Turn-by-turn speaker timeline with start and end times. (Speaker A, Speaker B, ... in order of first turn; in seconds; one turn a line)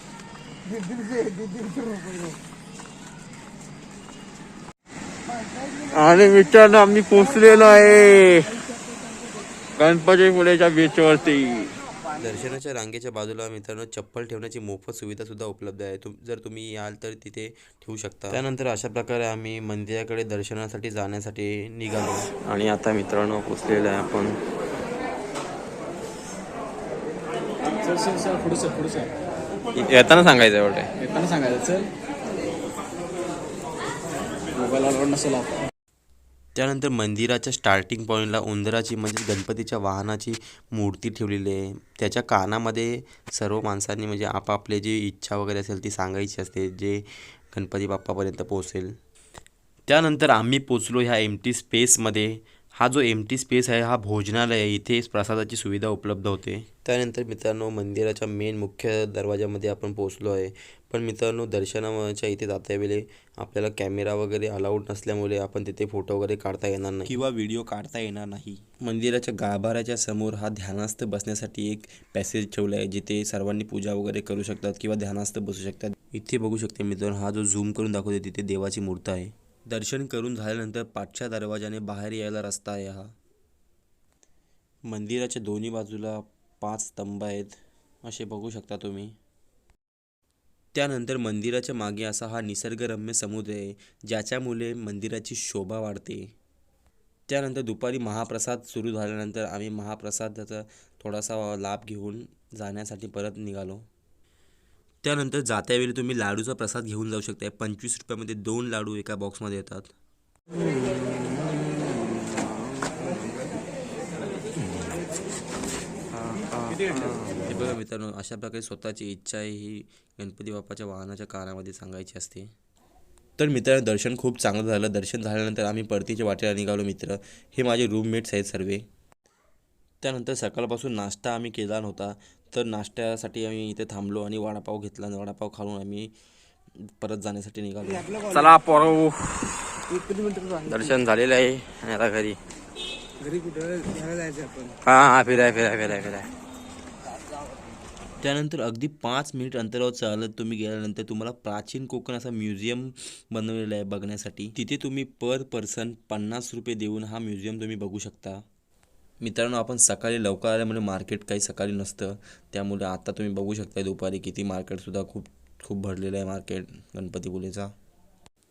Speaker A: 0.7-2.4
Speaker A: 5.5-5.9
Speaker B: 5.9-8.5
Speaker A: 7.4-8.4
Speaker B: 9.8-11.7
Speaker C: 12.2-24.4
Speaker D: 27.8-29.1
Speaker B: 29.8-30.9
Speaker D: 31.0-31.9
Speaker D: 34.6-35.5
Speaker C: 36.6-49.0
Speaker C: 49.9-83.1
Speaker C: 84.9-89.2
Speaker C: 90.7-96.3
Speaker C: 97.3-103.8
Speaker C: 105.0-109.9
Speaker B: 116.7-117.3
Speaker C: 117.5-122.5
Speaker C: 123.4-128.8
Speaker C: 130.0-136.1
Speaker C: 136.9-138.1
Speaker B: 138.3-139.7
Speaker A: 140.0-140.6
Speaker B: 140.7-142.0
Speaker A: 143.4-144.7
Speaker B: 144.8-146.3
Speaker C: 148.2-158.4
Speaker C: 159.2-167.7